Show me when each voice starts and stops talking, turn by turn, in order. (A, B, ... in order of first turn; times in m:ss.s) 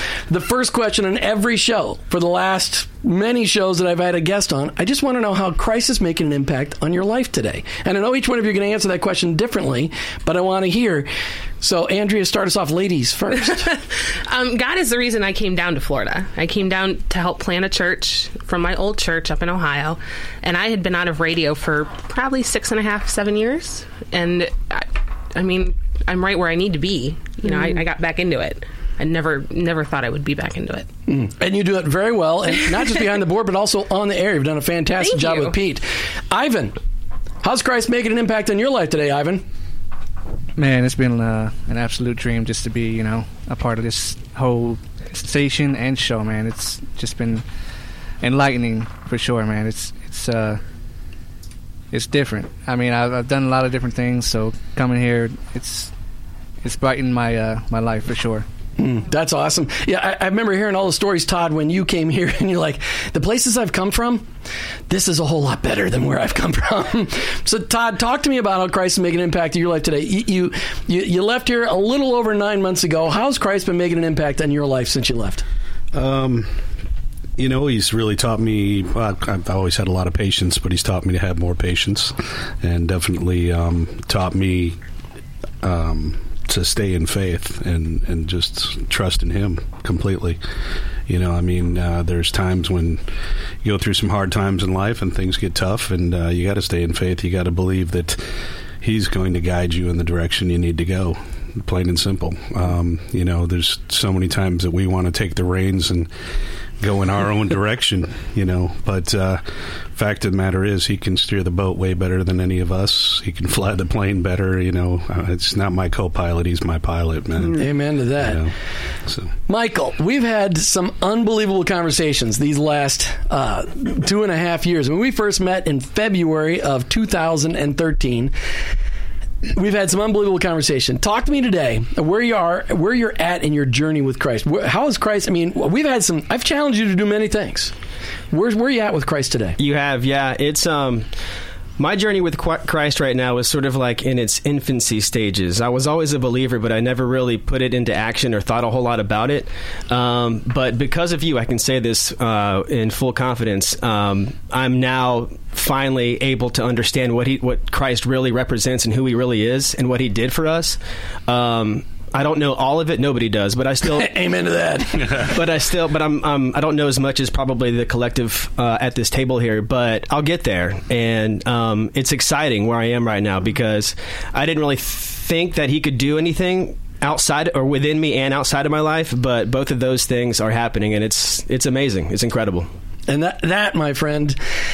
0:00.3-0:11.1 A
0:11.6-0:13.6 A
0:13.5-0:30.9 B
0:31.1-0:36.7 A
0:35.0-0:35.6 B
0:37.4-0:39.4 A
0:40.6-0:47.4 C
0:48.2-0:50.6 C
0:51.9-0:55.9 C
0:56.6-0:58.4 C
0:58.8-1:04.3 A
1:04.9-1:15.4 A
1:15.9-1:16.6 D
1:17.4-1:24.8 D
1:25.6-1:30.4 D
1:31.1-1:33.0 D
1:33.6-1:38.2 D
1:38.8-1:46.1 D
1:46.8-1:58.5 D
1:57.5-1:58.4 A
1:59.0-1:59.3 D
1:59.5-2:08.3 A
2:09.5-2:17.7 A
2:18.3-2:19.6 A
2:19.6-2:21.1 E
2:21.8-2:44.1 E
2:43.9-2:45.2 A
2:45.1-3:02.7 E
3:03.1-3:04.4 A